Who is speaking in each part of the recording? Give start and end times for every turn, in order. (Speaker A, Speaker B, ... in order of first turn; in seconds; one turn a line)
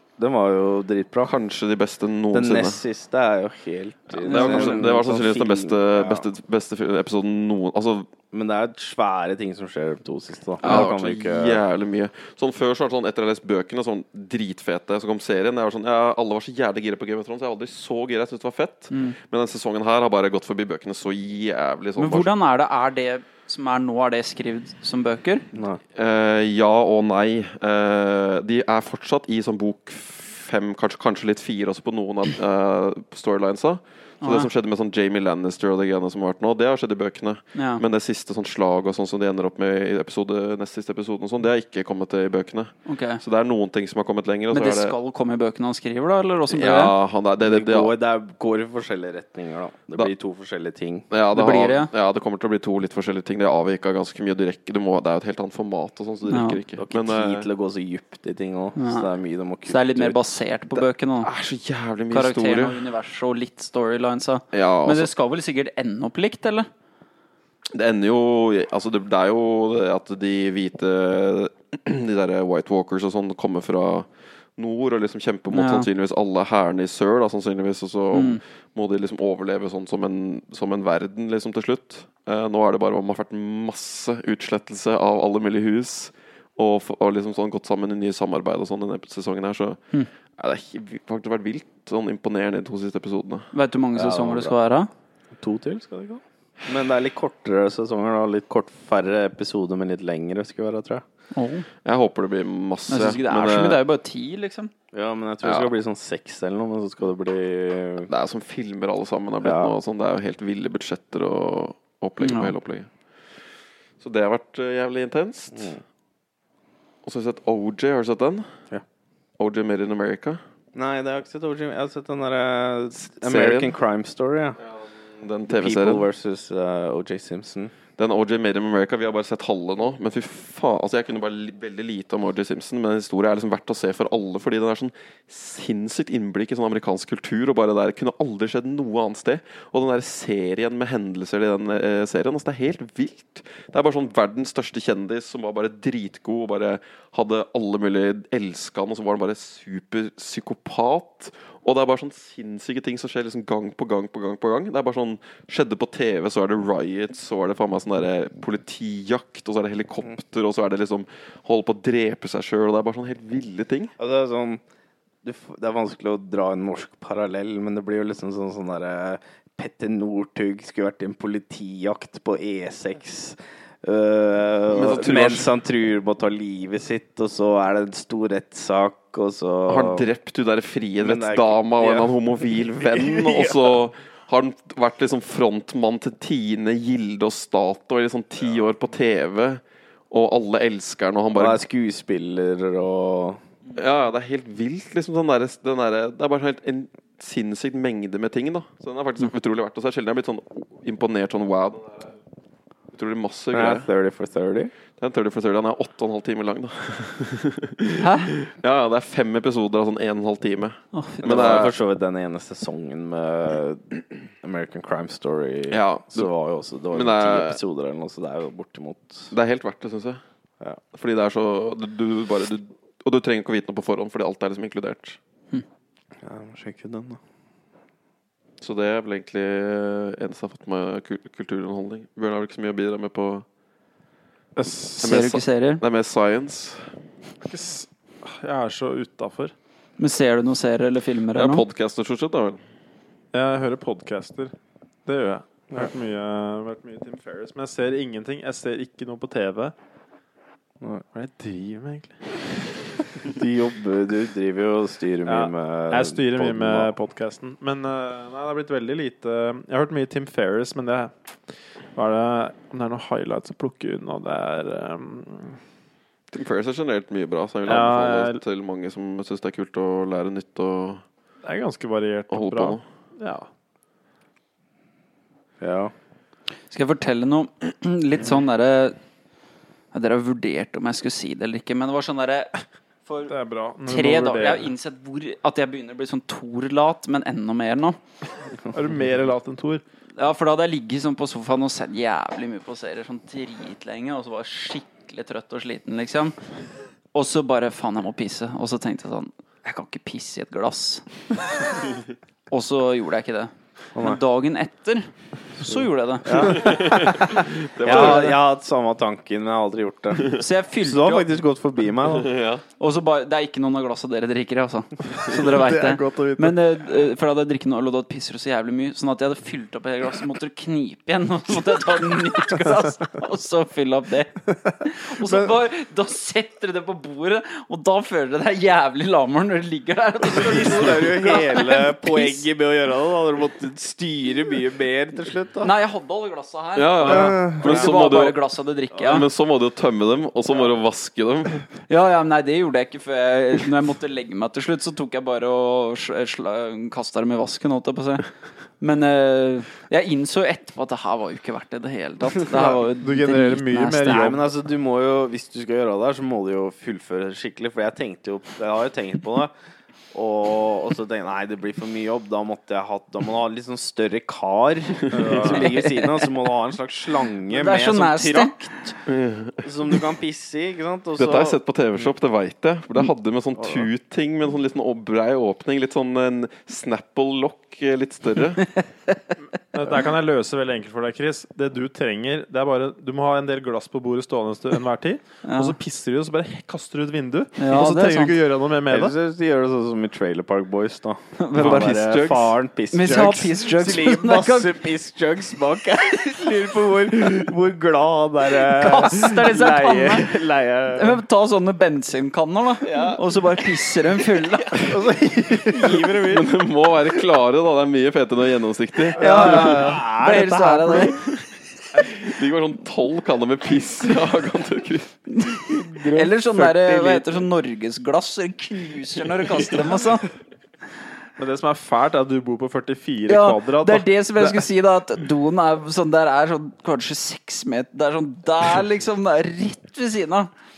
Speaker A: 0.2-1.3
Speaker B: 1.2-2.8
Speaker A: 2.3-6.2
Speaker B: 4.2-8.1
Speaker C: 4.2-4.9
Speaker A: 8.3-11.6
Speaker B: 10.6-22.3
Speaker C: 18.9-19.1
Speaker C: 22.0-25.4
Speaker A: 25.5-25.8
Speaker B: 25.9-44.9
Speaker C: 34.2-34.5
Speaker C: 37.5-37.8
Speaker C: 42.9-43.2
Speaker C: 44.5-46.9
Speaker B: 46.5-47.9
Speaker A: 47.4-51.0
Speaker B: 51.1-57.5
Speaker C: 51.3-51.9
Speaker C: 56.3-56.6
Speaker A: 56.8-60.2
Speaker C: 58.8-59.1
Speaker C: 59.6-61.3
Speaker B: 61.2-62.8
Speaker C: 62.1-66.7
Speaker B: 64.5-65.1
Speaker B: 67.7-89.8
Speaker C: 75.5-75.9
Speaker C: 78.1-78.4
Speaker B: 90.4-93.5
Speaker C: 93.5-94.9
Speaker A: 93.9-94.5
Speaker A: 95.4-101.0
Speaker C: 101.3-101.7
Speaker B: 101.8-103.8
Speaker C: 102.9-104.7
Speaker A: 104.9-108.1
Speaker B: 105.4-105.7
Speaker B: 108.1-112.9
Speaker A: 109.4-109.7
Speaker C: 112.2-112.5
Speaker B: 114.0-115.7
Speaker A: 115.5-115.8
Speaker B: 117.0-118.5
Speaker B: 119.4-120.4
Speaker A: 120.7-124.6
Speaker B: 123.2-123.7
Speaker B: 124.6-126.0
Speaker A: 125.5-127.7
Speaker B: 128.0-163.9
Speaker A: 164.0-164.6
Speaker A: 165.2-180.1
Speaker B: 174.7-175.5
Speaker B: 179.7-191.6
Speaker A: 181.0-182.1
Speaker A: 182.8-183.8
Speaker A: 191.3-193.4
Speaker B: 193.7-202.1
Speaker B: 202.9-203.9
Speaker A: 203.5-204.7
Speaker B: 205.0-211.7
Speaker C: 208.0-208.3
Speaker C: 210.9-211.5
Speaker A: 211.2-219.3
Speaker B: 215.7-216.3
Speaker B: 216.9-217.6
Speaker B: 219.3-220.2
Speaker B: 220.9-225.2
Speaker A: 226.2-227.2
Speaker B: 228.6-233.4
Speaker D: 234.6-235.0
Speaker C: 235.0-235.8
Speaker B: 235.0-236.9
Speaker D: 237.4-239.5
Speaker C: 240.0-241.6
Speaker B: 241.3-242.6
Speaker D: 243.3-244.5
Speaker D: 245.1-249.7
Speaker D: 251.1-252.2
Speaker A: 253.2-256.9
Speaker D: 255.2-261.1
Speaker D: 261.9-265.6
Speaker B: 266.3-271.0
Speaker D: 267.6-268.4
Speaker D: 271.4-273.5
Speaker B: 272.3-272.8
Speaker A: 275.6-275.9
Speaker C: 276.7-279.0
Speaker C: 279.9-282.5
Speaker C: 283.1-283.3
Speaker D: 283.3-284.7
Speaker C: 283.9-288.0
Speaker D: 288.7-289.8
Speaker C: 290.2-296.4
Speaker C: 297.1-301.0
Speaker C: 302.5-306.7
Speaker A: 303.9-304.2
Speaker A: 306.2-307.3
Speaker B: 306.4-308.3
Speaker A: 307.8-312.3
Speaker C: 307.8-308.4
Speaker B: 310.1-310.4
Speaker C: 310.4-311.3
Speaker B: 312.0-312.6
Speaker C: 312.8-332.4
Speaker D: 315.2-316.6
Speaker D: 325.2-325.5
Speaker A: 330.2-335.7
Speaker C: 335.6-339.3
Speaker B: 336.8-338.4
Speaker B: 338.9-341.6
Speaker C: 341.9-348.2
Speaker C: 348.8-354.2
Speaker A: 352.3-352.8
Speaker D: 352.5-354.4
Speaker A: 354.0-359.5
Speaker A: 360.1-368.9
Speaker D: 365.1-365.7
Speaker C: 365.4-366.5
Speaker C: 367.5-368.7
Speaker B: 369.1-369.7
Speaker A: 369.6-371.6
Speaker B: 371.2-378.6
Speaker D: 379.7-389.1
Speaker C: 385.4-385.7
Speaker C: 387.6-388.4
Speaker A: 388.9-401.2
Speaker C: 391.4-394.7
Speaker C: 398.5-400.4
Speaker C: 400.9-404.9
Speaker A: 402.8-403.2
Speaker D: 404.9-406.4
Speaker A: 405.6-406.4
Speaker B: 405.7-409.7
Speaker C: 409.2-411.2
Speaker A: 409.2-411.2
Speaker D: 409.2-410.1
Speaker B: 411.9-415.1
Speaker C: 415.3-420.3
Speaker A: 415.6-417.4
Speaker D: 421.4-424.7
Speaker C: 423.3-430.5